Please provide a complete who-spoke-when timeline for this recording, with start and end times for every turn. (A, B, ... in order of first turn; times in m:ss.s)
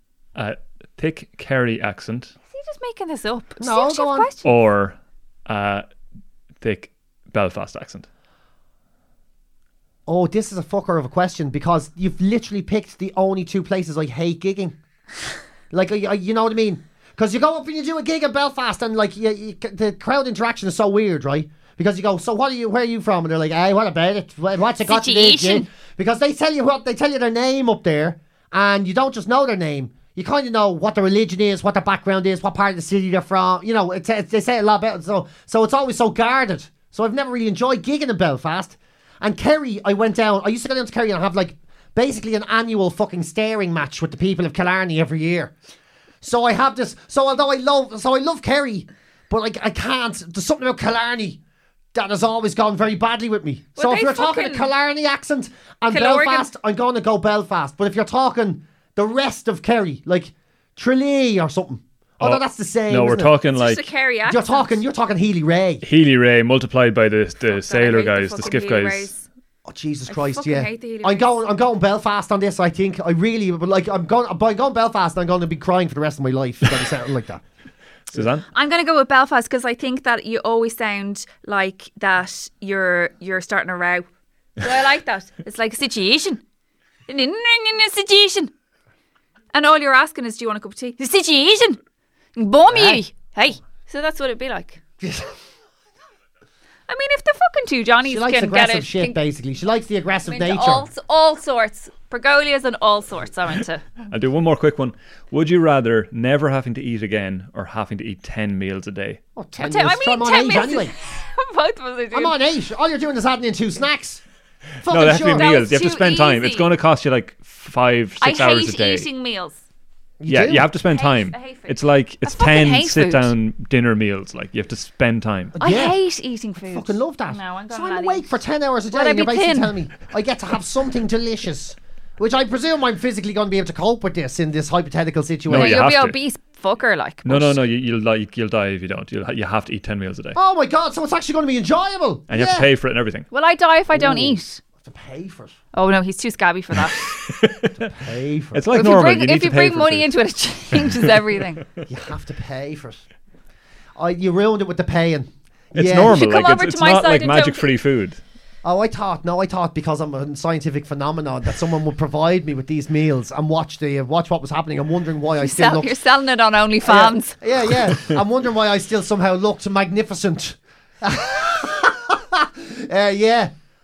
0:00.4-0:02.3 A
0:02.5-0:04.6 B
0:03.6-0:04.3 C
0:04.4-0:05.8 A
0:06.6-0:08.0 A
0:10.0-0:14.8 C
0:15.7-0:45.5 C
0:24.8-0:25.7 B
0:46.2-0:51.4 C
0:51.9-1:03.3 C
0:53.8-0:54.7 B
0:55.9-0:56.5 B
1:02.2-1:03.8 A
1:03.5-1:04.8 B
1:04.3-1:05.8 C
1:05.8-1:09.1 A
1:07.5-1:09.2 B
1:09.6-1:17.4 C
1:10.1-1:11.4 B
1:18.1-1:18.4 A
1:18.5-1:26.4 B
1:27.1-1:28.5 B
1:29.5-1:31.8 B
1:32.4-1:34.8 B
1:32.7-1:33.0 C
1:35.0-1:35.3 C
1:36.9-1:39.2 B
1:38.0-1:40.9 C
1:40.2-1:43.8 B
1:44.1-1:49.2 A
1:49.4-1:50.9 C
1:49.6-1:52.4 B
1:52.1-1:54.2 C
1:54.8-1:55.5 C
1:54.9-1:59.1 A
1:55.3-1:56.7 B
1:58.2-1:59.6 B
2:00.2-2:00.7 C
2:00.3-2:05.5 A
2:00.9-2:03.3 B
2:05.5-2:06.0 C
2:05.6-2:09.8 B
2:06.6-2:15.8 C
2:15.5-2:16.2 A
2:15.5-2:17.6 B
2:17.2-2:20.4 A
2:20.4-2:22.7 C
2:22.3-2:23.2 A
2:23.3-2:24.6 B
2:23.9-2:25.6 C
2:25.7-2:27.1 B
2:26.8-2:28.0 A
2:27.9-2:28.7 C
2:28.5-2:30.1 A
2:28.7-2:31.6 B
2:30.7-2:31.4 A
2:31.9-2:33.0 C
2:34.0-2:36.2 C
2:35.7-2:38.2 A
2:36.1-2:37.7 B
2:38.6-2:46.0 C
2:45.4-2:47.4 B
2:46.8-2:53.5 C